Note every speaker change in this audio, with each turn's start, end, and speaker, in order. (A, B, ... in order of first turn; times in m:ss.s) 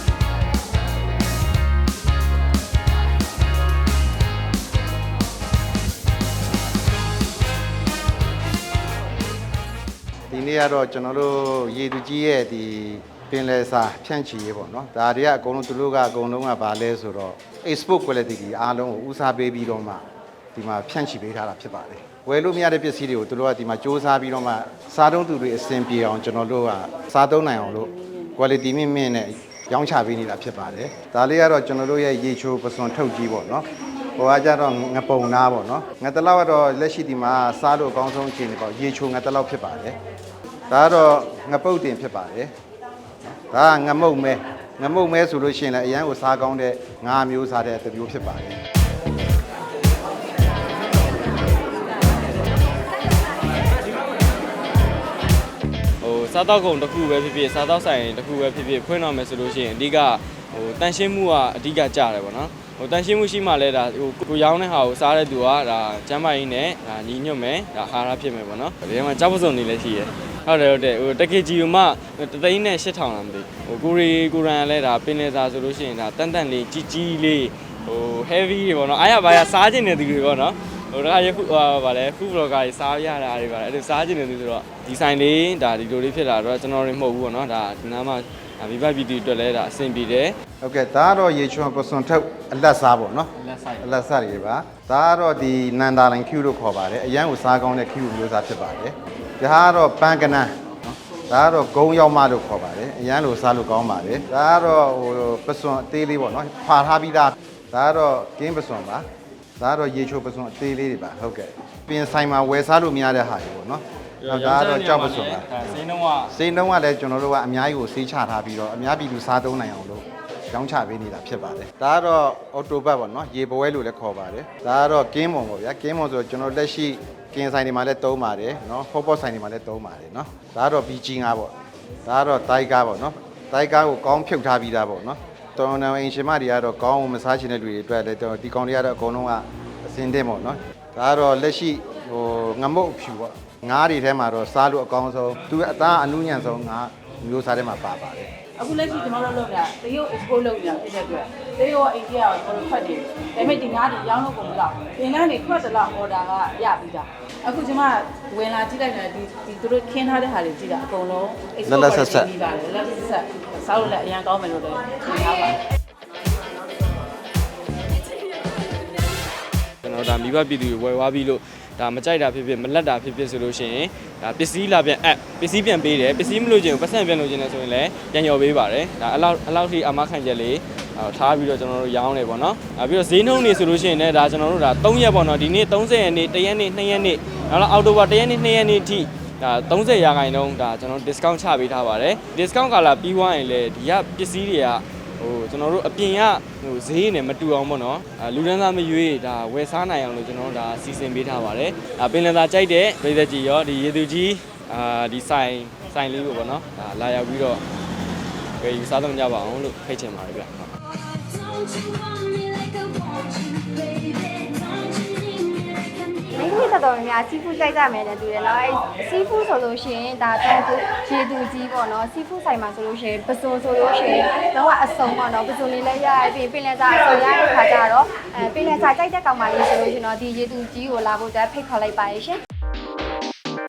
0:10.3-0:20.0 A
0:20.5-0:40.0 A
0:27.6-0:28.4 B
0:40.7-0:42.5 A
0:43.5-0:48.6 A
0:56.0-1:30.4 C
1:30.6-1:49.0 A
1:33.4-1:33.9 C
1:49.6-1:55.6 A
1:54.2-1:56.3 C
1:56.3-2:11.5 A
2:12.0-2:28.3 A
2:28.6-2:45.6 B
2:41.6-2:42.3 A
2:49.8-3:27.6 C
3:28.6-3:30.7 C
3:31.1-3:36.3 D
3:36.3-3:52.4 E